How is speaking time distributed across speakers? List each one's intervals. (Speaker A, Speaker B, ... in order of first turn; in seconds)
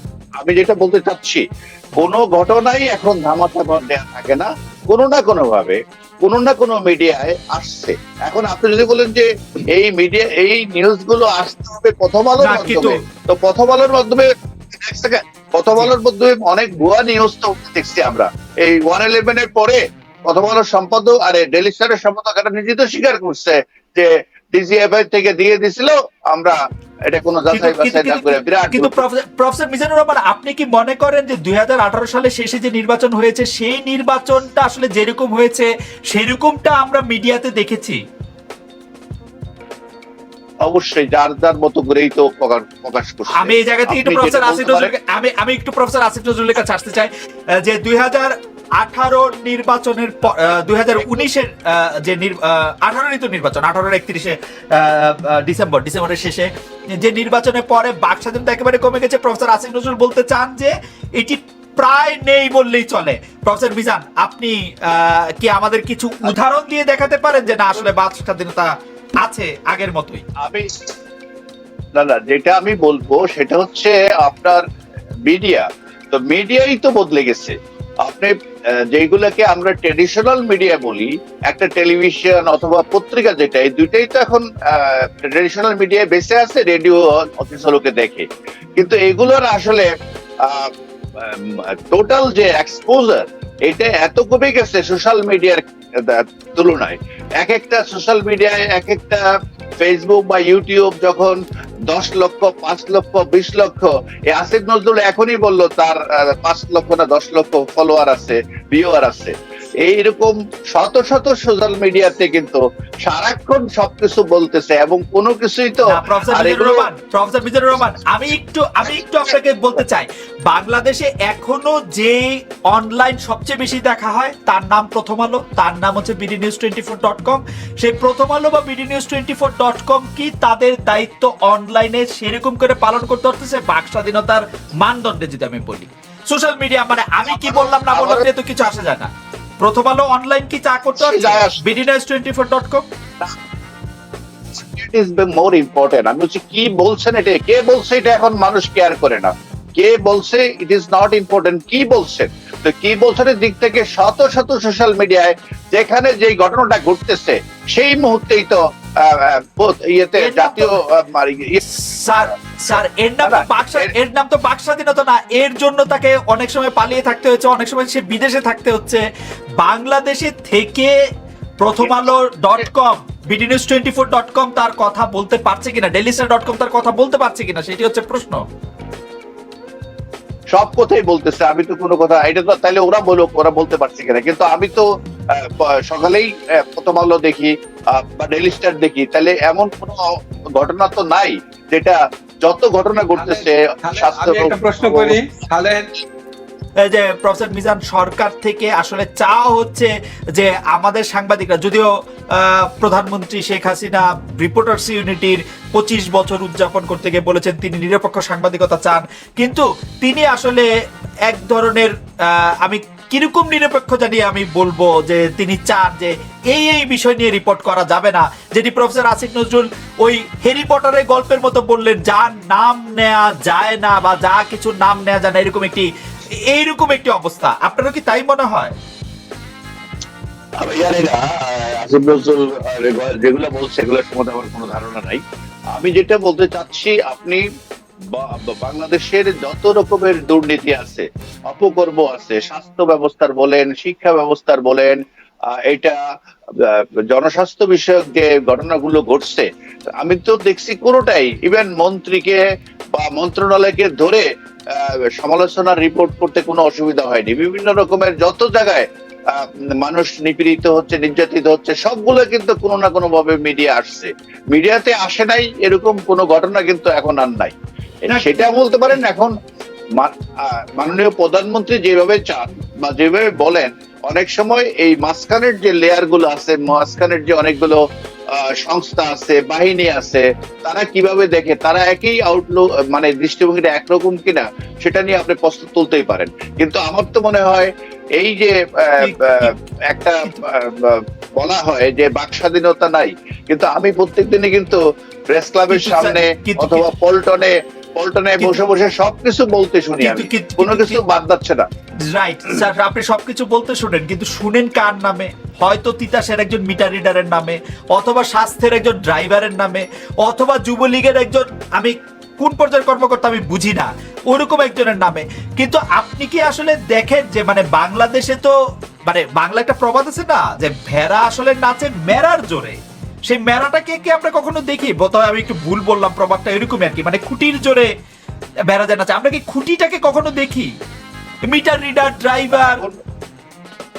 Speaker A: 0.4-29.0, 40.6-44.9, 70.4-70.7, 71.9-74.6, 75.3-89.9, 90.4-99.3, 99.8-116.9, 137.3-138.3, 140.9-141.6, 144.5-163.9, 171.8-172.7, 180.5-195.2, 230.6-237.4, 238.1-246.0, 246.5-249.5, 250.0-252.4, 252.9-269.4, 270.0-277.8, 278.3-301.7, 332.5-333.0
Speaker B: 12.4-13.0, 27.5-38.0, 43.4-47.1, 47.6-70.2, 115.9-142.9, 160.2-160.7, 161.7-169.0, 169.6-170.9, 171.6-178.4, 196.8-210.7, 211.3-225.9, 226.5-228.8, 268.1-268.5, 289.0-289.5, 295.7-296.9, 300.0-301.0, 302.1-318.5, 319.1-327.9, 328.7-330.7, 331.4-332.8
Speaker C: 193.2-195.9